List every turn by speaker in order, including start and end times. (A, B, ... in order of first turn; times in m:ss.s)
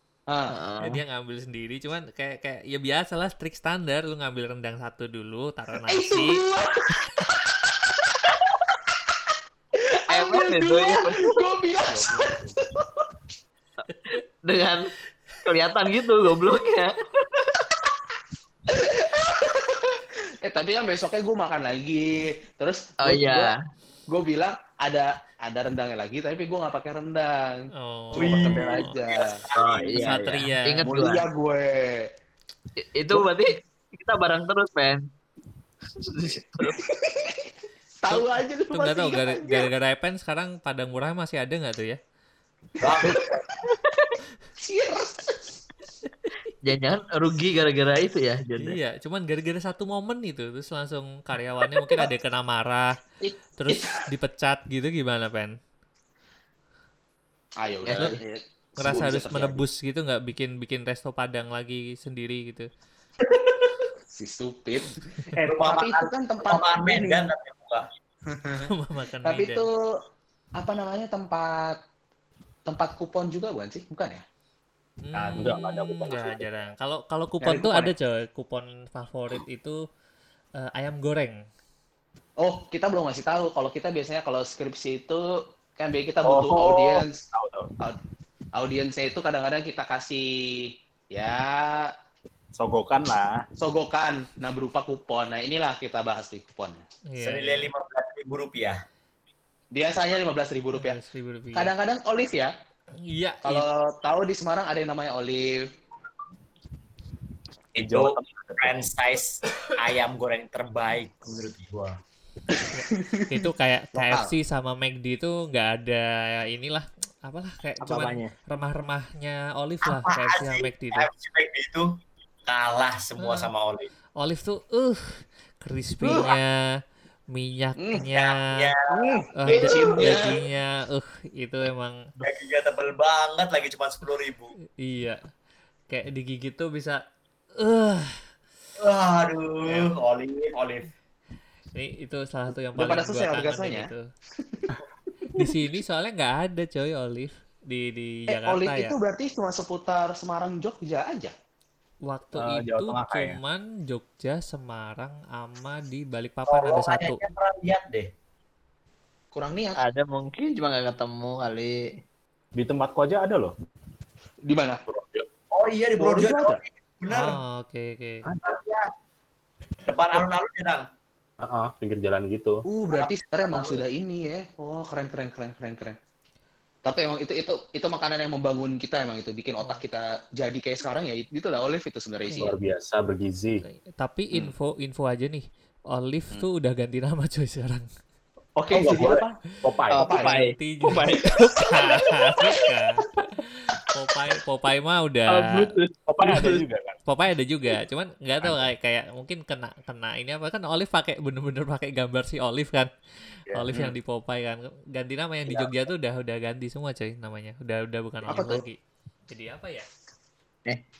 0:00.5-0:01.0 A
0:00.8-0:06.4 B
0:05.9-0:07.9 C
0:09.8-0:13.1 C
0:10.1-0:11.4 A
0:14.1-0:14.9 A
0:15.4-0:17.7 A
0:18.7-0:23.5 C
0:23.0-0:23.6 A
0:24.1-0:29.4 C
0:27.8-0:29.0 B
0:28.1-0:30.1 D
0:29.6-0:31.2 A
0:29.9-0:30.9 B
0:30.8-0:32.1 C
0:32.9-0:35.1 A
0:36.0-0:36.8 A
0:36.8-0:37.5 C
0:38.0-0:39.7 C
0:38.1-0:42.0 B
0:42.8-0:43.5 D
0:42.9-0:43.6 C
0:43.8-0:44.1 A
0:44.6-0:45.6 C
0:46.6-0:48.8 A
0:48.6-0:52.9 B
0:53.2-0:54.0 C
0:53.6-0:55.6 B
0:57.6-0:59.6 C
0:57.9-0:58.2 A
0:58.8-1:02.7 B
1:04.1-1:07.2 C
1:05.4-1:07.9 D
1:08.3-1:08.7 C
1:08.6-1:09.7 B
1:09.2-1:10.0 C
1:10.6-1:11.8 C
1:12.7-1:14.2 C
1:15.0-1:19.8 B
1:15.2-1:16.7 E
1:17.4-1:17.9 C
1:20.6-1:21.4 B
1:22.4-1:25.2 C
1:25.8-1:27.2 C
1:26.2-1:27.7 E
1:28.6-1:31.9 C
1:32.6-1:33.5 E
1:33.6-1:36.8 C
1:37.1-1:37.7 B
1:37.2-1:38.8 D
1:39.7-1:41.0 C
1:40.7-1:41.7 B
1:41.6-1:42.5 C
1:43.1-1:43.7 B
1:43.4-1:45.7 C
1:47.8-1:52.0 D
1:47.8-1:48.8 E
1:52.5-1:54.3 C
1:52.7-2:01.1 B
1:57.8-1:58.3 A
1:59.9-2:01.9 D
2:02.5-2:03.9 D
2:03.2-2:03.5 B
2:04.2-2:06.5 B
2:06.0-2:06.3 C
2:07.3-2:08.7 B
2:07.8-2:08.0 C
2:08.1-2:10.4 D
2:08.9-2:10.4 C
2:09.4-2:12.0 B
2:12.2-2:14.5 D
2:14.8-2:15.2 B
2:15.9-2:17.0 B
2:17.6-2:18.2 B
2:18.8-2:20.9 D
2:19.7-2:19.9 B
2:21.7-2:24.0 B
2:22.8-2:24.8 C
2:25.3-2:29.0 B
2:28.3-2:31.3 C
2:32.1-2:37.2 B
2:32.4-2:33.4 E
2:36.5-2:38.1 D
2:39.3-2:39.8 C
2:39.8-2:41.9 A
2:42.6-2:43.5 E
2:44.5-2:44.8 C
2:44.9-2:45.3 E
2:45.5-2:47.4 D
2:46.0-2:46.6 C
2:47.1-2:48.2 B
2:48.4-2:48.9 D
2:49.9-2:50.8 D
2:51.4-2:52.6 E
2:52.7-2:56.0 C
2:53.0-2:53.8 D
2:56.8-3:02.5 C
3:02.4-3:03.6 E
3:04.0-3:07.9 B
3:08.6-3:09.4 C
3:08.7-3:10.1 E
3:10.0-3:11.8 A
3:10.0-3:10.4 C
3:10.0-3:15.7 B
3:15.3-3:16.6 A
3:16.1-3:17.0 E
3:17.1-3:22.9 B
3:23.5-3:23.8 E
3:23.5-3:28.8 B
3:28.3-3:28.6 C
3:29.3-3:29.9 B